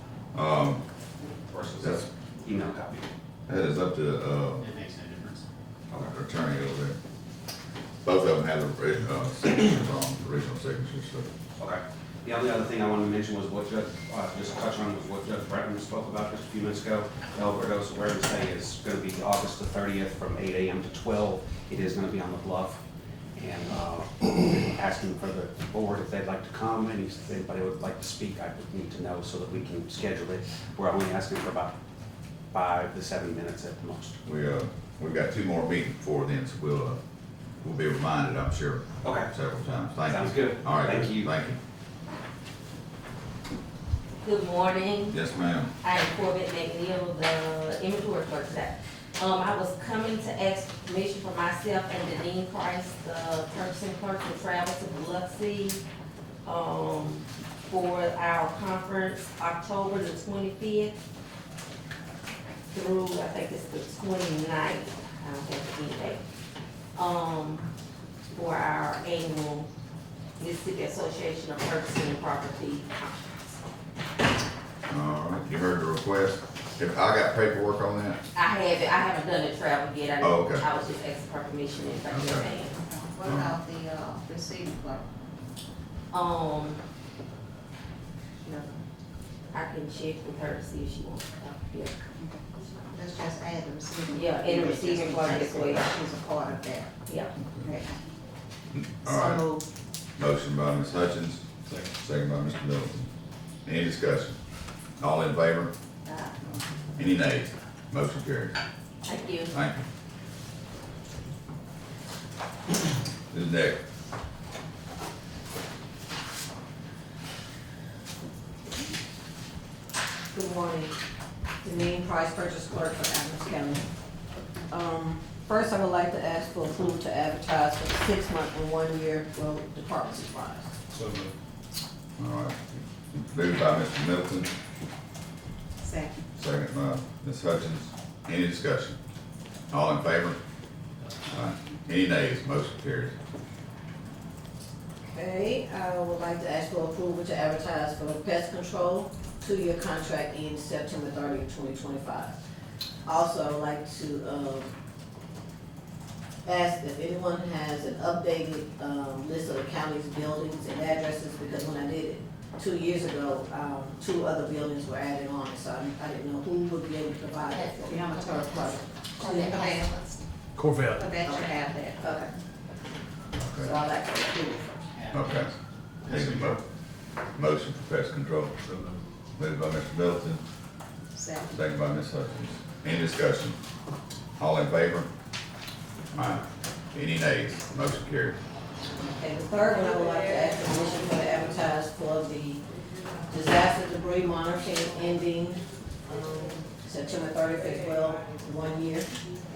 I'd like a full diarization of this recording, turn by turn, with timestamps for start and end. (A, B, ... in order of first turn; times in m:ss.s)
0:00.3-0:00.8 A
0:01.5-0:03.1 B
0:03.5-0:04.7 A
0:04.6-0:05.4 C
0:05.9-0:06.2 B
0:06.0-0:07.0 A
0:08.0-0:11.3 A
0:11.6-0:22.8 B
0:23.4-0:31.7 B
0:32.5-0:34.2 B
0:34.2-0:37.0 A
0:37.6-0:41.6 A
0:39.0-0:39.3 B
0:40.1-0:41.3 B
0:44.2-0:45.2 D
0:45.1-0:45.7 A
0:45.8-0:55.8 D
0:56.4-1:01.0 D
1:02.7-1:06.2 D
1:07.0-1:07.7 D
1:08.3-1:09.7 D
1:10.4-1:12.9 D
1:14.9-1:18.2 A
1:18.4-1:22.8 D
1:20.2-1:20.7 A
1:22.1-1:22.5 A
1:22.8-1:25.0 E
1:23.2-1:23.6 A
1:26.1-1:26.8 D
1:28.4-1:28.8 E
1:29.5-1:32.0 D
1:32.2-1:36.9 E
1:34.1-1:36.0 D
1:37.1-1:37.3 D
1:37.6-1:37.9 E
1:38.7-1:39.5 A
1:39.1-1:39.6 E
1:40.2-1:41.4 A
1:41.9-1:43.1 A
1:43.6-1:44.4 A
1:45.0-1:45.7 A
1:46.1-1:46.3 D
1:46.4-1:48.6 A
1:49.0-1:49.5 D
1:49.5-1:49.8 A
1:53.3-1:53.8 A
2:00.3-2:00.9 F
2:01.6-2:03.8 F
2:04.7-2:10.7 F
2:12.2-2:14.5 A
2:15.8-2:16.2 E
2:16.4-2:19.0 A
2:19.7-2:20.4 A
2:21.3-2:23.2 A
2:25.1-2:32.4 F
2:33.1-2:34.7 F
2:36.4-2:48.4 F
2:47.5-2:50.2 E
2:49.3-2:49.7 F
2:50.9-2:52.1 E
2:51.2-2:52.3 F
2:53.4-2:53.7 A
2:53.6-2:54.9 F
2:54.9-2:55.5 C
2:55.1-2:55.5 A
2:56.0-2:56.6 A
2:56.0-2:56.6 C
2:57.4-2:58.5 A
2:59.4-3:00.4 A
3:01.1-3:01.6 E
3:01.5-3:03.6 A
3:04.4-3:05.1 A
3:06.1-3:08.4 A
3:09.0-3:12.6 F
3:13.3-3:19.1 F